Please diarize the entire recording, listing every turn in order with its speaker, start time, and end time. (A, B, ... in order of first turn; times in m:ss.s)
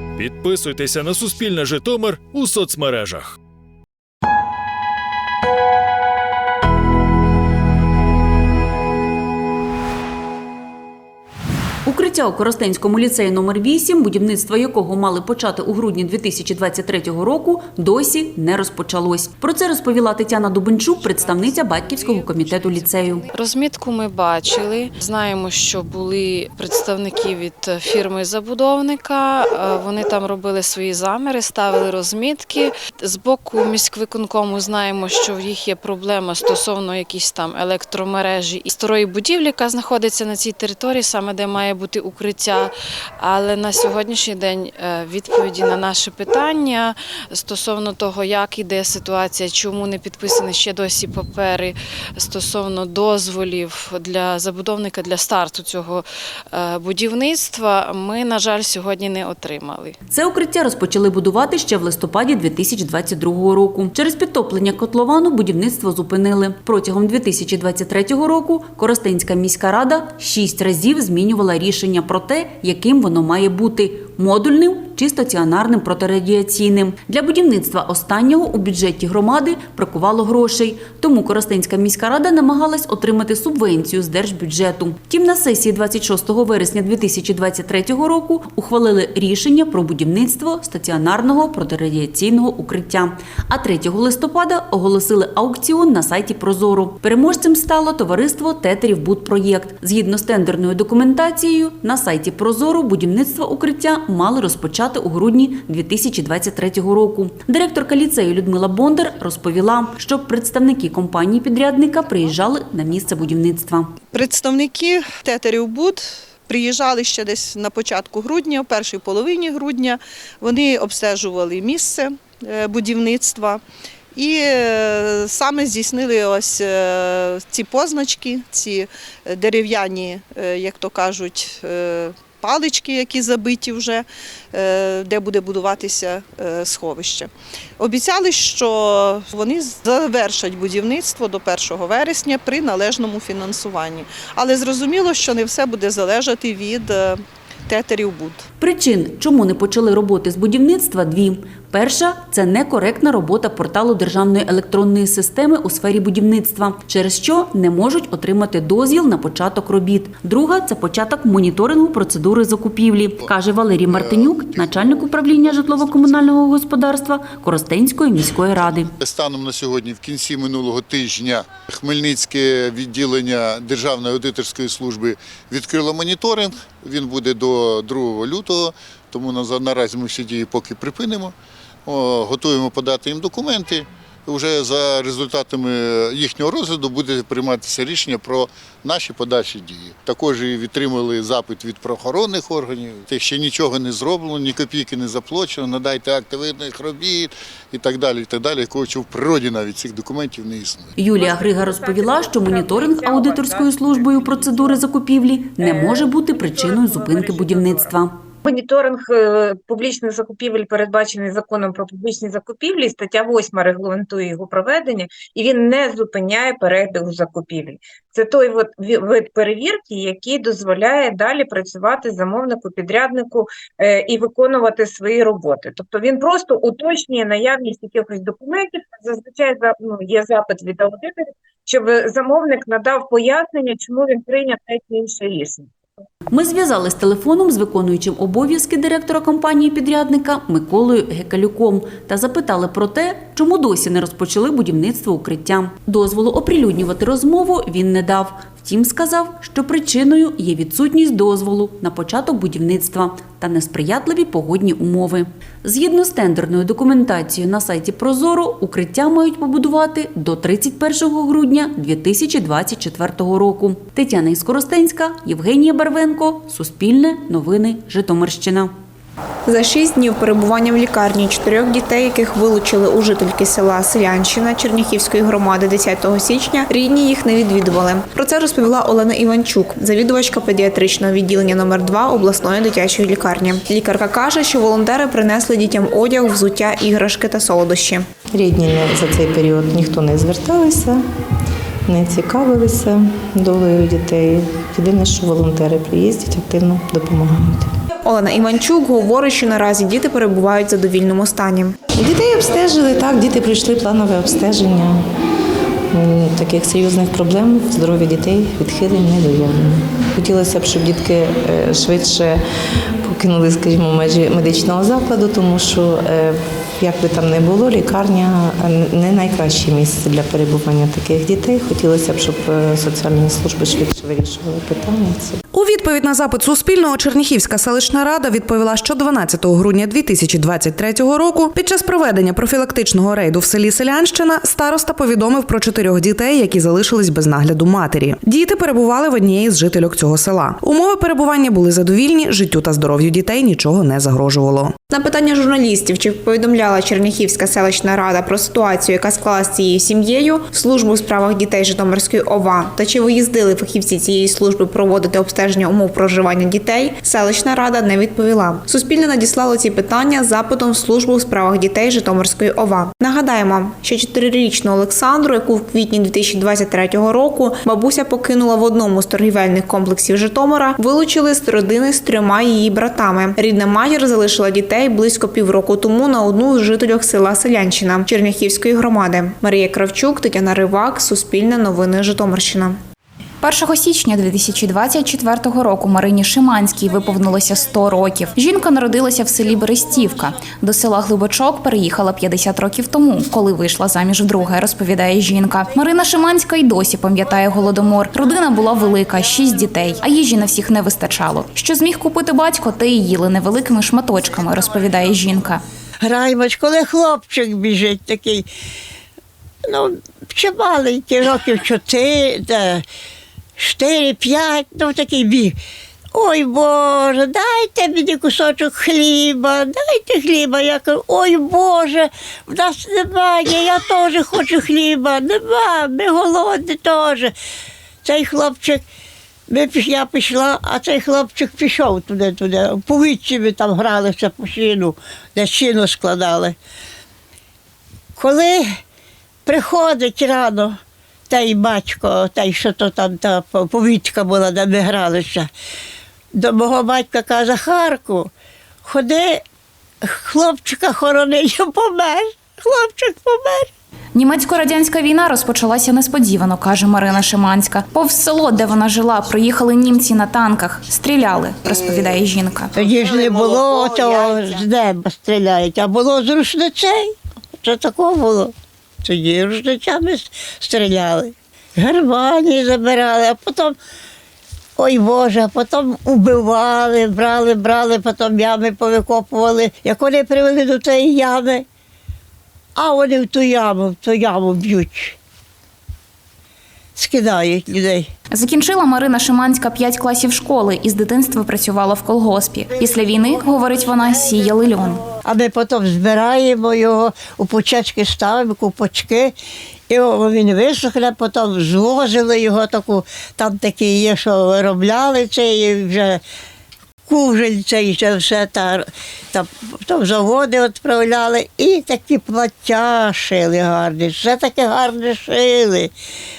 0:00.2-0:03.4 A
0:11.8-0:23.3 B
0:20.7-0:59.9 C
1:00.1-1:53.9 B
1:54.1-2:03.6 D
2:04.2-2:28.4 D
2:28.6-2:48.9 B
2:43.2-2:46.4 E
2:49.0-3:01.3 E
3:01.8-3:21.0 E
3:21.0-3:28.2 B
3:21.1-3:24.8 F
3:25.6-3:27.9 F
3:28.4-3:55.7 F
3:56.3-4:28.7 B
4:29.4-4:48.0 G
4:48.3-4:51.0 H
4:51.9-4:57.7 H
4:58.0-5:01.8 G
5:01.9-5:05.1 H
5:05.9-5:12.4 H
5:13.0-5:25.4 H
5:25.5-5:44.8 I
5:44.9-6:22.8 G
6:23.4-6:45.6 J
6:46.0-6:48.5 K
6:49.7-6:52.8 K
6:53.6-6:55.6 K
6:56.1-7:07.3 K
7:08.0-7:08.8 K
7:09.5-7:16.5 K
7:18.2-7:18.7 K
7:19.4-7:20.8 K
7:21.3-7:25.5 K
7:26.4-7:28.3 K
7:28.8-7:29.4 K
7:30.0-7:33.7 K
7:34.1-7:42.7 J
7:42.8-7:48.5 K
7:49.0-7:53.8 K
7:54.8-8:01.6 K
8:02.8-8:05.2 K
8:07.0-8:08.1 K
8:08.3-8:15.0 J
8:15.2-8:19.3 K
8:19.9-8:26.2 K
8:27.1-8:35.9 K